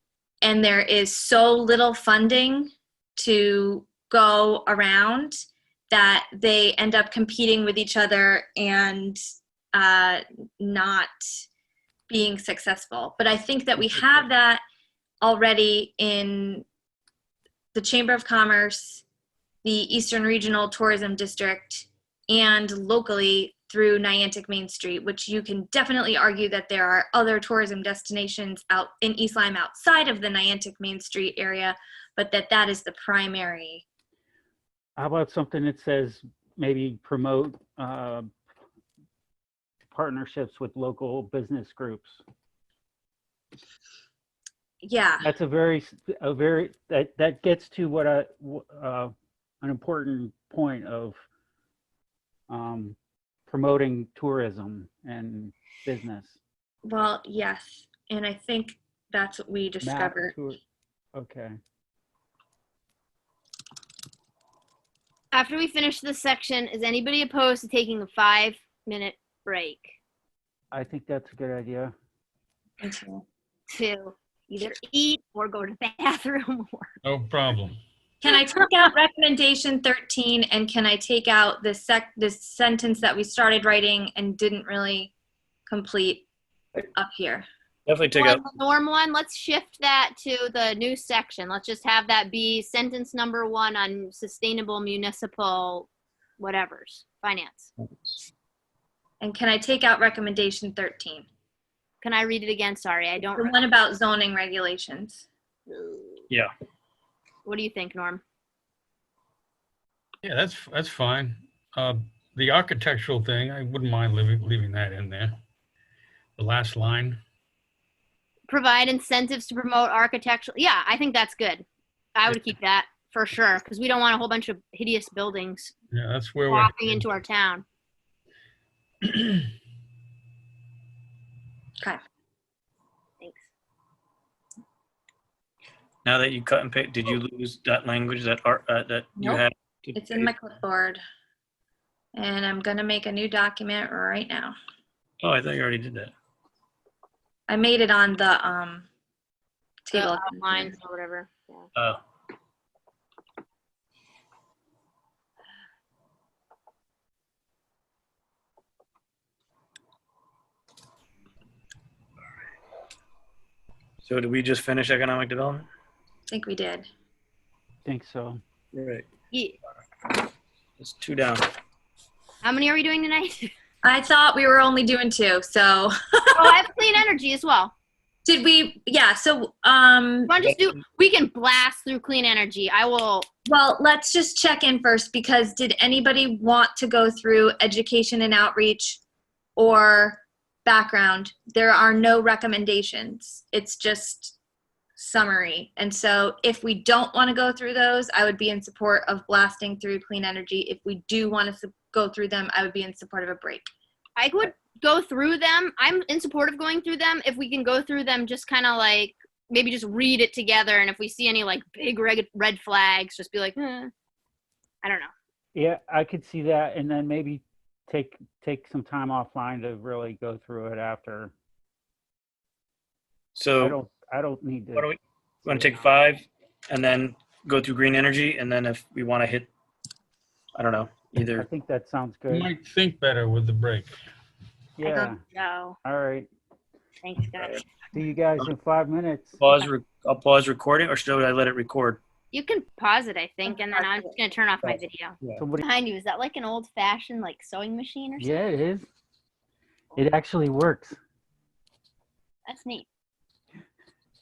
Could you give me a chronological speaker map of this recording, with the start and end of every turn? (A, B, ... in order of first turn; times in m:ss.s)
0:00.4-0:05.4 A
0:05.9-0:09.2 A
0:09.7-0:11.4 A
0:12.1-0:14.6 A
0:15.2-0:16.6 A
0:17.7-0:19.0 A
0:19.6-0:33.8 A
0:35.0-0:38.3 B
0:39.9-0:42.2 B
0:44.8-0:45.3 A
0:45.2-0:51.2 B
0:52.5-0:56.4 B
0:56.8-1:00.3 A
0:59.8-1:00.6 B
1:01.1-1:01.6 B
1:05.3-1:09.9 C
1:10.7-1:11.9 B
1:12.8-1:13.2 A
1:13.7-1:16.9 C
1:17.0-1:17.8 D
1:18.2-1:25.1 A
1:25.7-1:26.2 A
1:26.9-1:27.4 A
1:27.9-1:28.4 E
1:28.1-1:35.9 C
1:36.4-1:37.7 C
1:39.2-1:41.3 A
1:42.0-1:43.6 C
1:43.4-1:45.2 A
1:45.7-1:46.2 C
1:47.4-1:48.2 C
1:50.2-1:55.4 D
1:56.4-1:57.2 D
1:58.5-2:05.7 C
2:05.9-2:07.1 D
2:06.5-2:07.6 C
2:09.0-2:09.4 D
2:13.2-2:13.5 C
2:16.0-2:20.3 E
2:19.2-2:21.0 A
2:22.1-2:24.5 A
2:25.2-2:26.1 E
2:27.5-2:28.9 A
2:29.8-2:30.7 A
2:29.9-2:31.7 C
2:31.7-2:32.0 E
2:44.0-2:45.7 E
2:46.3-2:46.9 A
2:47.8-2:48.4 B
2:48.7-2:49.1 E
2:49.3-2:49.6 C
2:50.8-2:51.5 E
2:52.4-2:53.5 C
2:53.8-2:56.5 A
2:56.3-2:57.7 C
2:58.2-3:00.3 A
3:00.3-3:03.3 C
3:03.5-3:09.0 A
3:09.6-3:14.4 A
3:15.0-3:23.7 A
3:24.2-3:33.9 C
3:34.8-3:35.1 C
3:35.5-3:41.3 B
3:43.3-3:43.8 E
3:43.6-3:44.9 B
3:44.8-3:49.5 E
3:45.4-3:45.9 B
3:50.5-3:51.4 E
3:51.3-3:52.5 B
3:52.3-3:53.9 D
3:54.8-3:55.2 B
3:54.8-3:55.8 C
3:55.8-3:56.3 B
3:57.0-3:57.6 C
3:57.9-3:59.3 B
3:59.4-4:02.0 E
4:02.3-4:08.3 C
4:03.4-4:04.2 A
4:04.6-4:05.4 E
4:05.4-4:05.7 B
4:08.2-4:08.9 B
4:10.0-4:11.0 B
4:12.4-4:12.9 C